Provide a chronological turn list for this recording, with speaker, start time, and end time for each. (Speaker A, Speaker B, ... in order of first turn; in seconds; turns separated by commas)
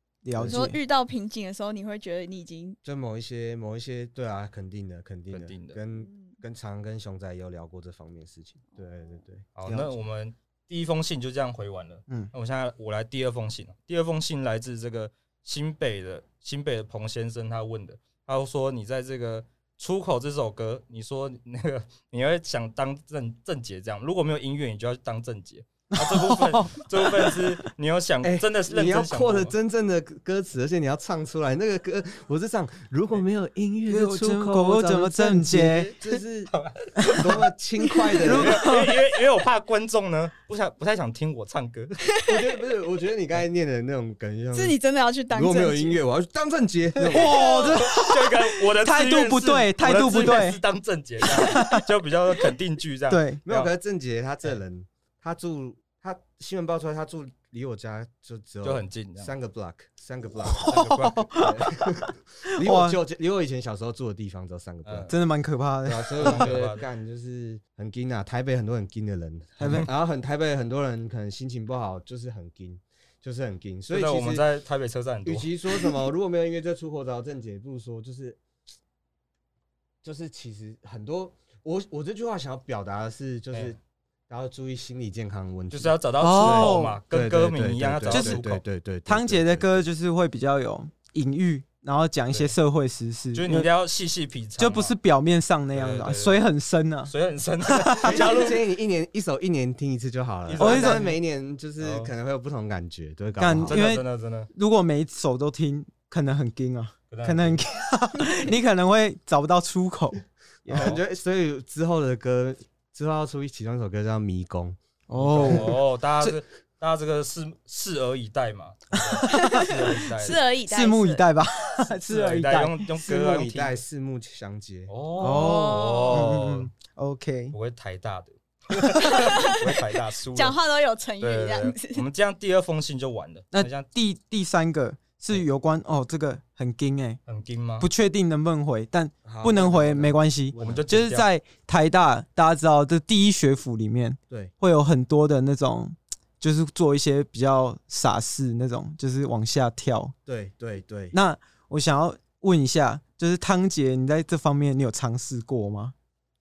Speaker A: 0.2-0.8, Speaker B: 0.3-0.7, Speaker C: 0.5-2.8, Speaker B: 2.8-9.5, Speaker D: 5.3-5.8, Speaker D: 9.6-29.5, Speaker A: 25.9-27.6, Speaker B: 28.2-36.5, Speaker A: 33.9-35.9, Speaker D: 36.5-37.4, Speaker B: 37.1-38.7, Speaker D: 38.2-42.0, Speaker A: 38.2-39.0, Speaker B: 42.2-44.8, Speaker C: 44.5-46.0, Speaker B: 45.3-47.4, Speaker A: 47.0-50.6, Speaker D: 47.2-53.7, Speaker C: 47.4-47.8, Speaker A: 51.2-51.9, Speaker A: 53.1-53.4, Speaker B: 53.5-65.2, Speaker D: 58.6-59.3, Speaker A: 60.5-62.0, Speaker D: 60.7-61.3, Speaker A: 62.6-63.0, Speaker D: 64.8-65.1, Speaker A: 65.1-66.5, Speaker B: 65.8-74.5, Speaker D: 66.2-66.8, Speaker A: 69.6-69.9, Speaker D: 73.9-75.5, Speaker B: 75.2-78.4, Speaker B: 80.0-83.8, Speaker B: 84.3-89.9, Speaker D: 85.7-88.6, Speaker A: 86.2-87.0, Speaker A: 88.1-88.4, Speaker A: 89.1-93.7, Speaker D: 93.3-95.0, Speaker A: 94.6-97.1, Speaker D: 95.7-96.4, Speaker D: 97.1-98.6, Speaker A: 97.7-98.3, Speaker B: 98.0-103.8, Speaker D: 100.5-101.2, Speaker A: 100.6-101.1, Speaker D: 101.8-102.1, Speaker A: 103.4-111.0, Speaker D: 103.7-104.5, Speaker D: 107.1-107.6, Speaker B: 110.7-115.8, Speaker D: 110.7-111.0, Speaker A: 115.1-116.4, Speaker D: 115.2-120.4, Speaker C: 119.3-121.2, Speaker A: 119.4-119.7, Speaker A: 120.2-122.9, Speaker D: 122.1-123.8, Speaker B: 123.0-124.9, Speaker D: 124.9-126.7, Speaker A: 125.2-127.5, Speaker C: 125.4-126.2, Speaker D: 127.5-130.6, Speaker C: 128.9-129.6, Speaker C: 130.3-132.0, Speaker D: 131.2-133.9, Speaker A: 133.5-137.2, Speaker D: 137.3-137.9, Speaker A: 137.8-150.1, Speaker B: 139.2-140.9, Speaker D: 140.6-141.3, Speaker B: 150.3-151.2, Speaker A: 151.1-155.9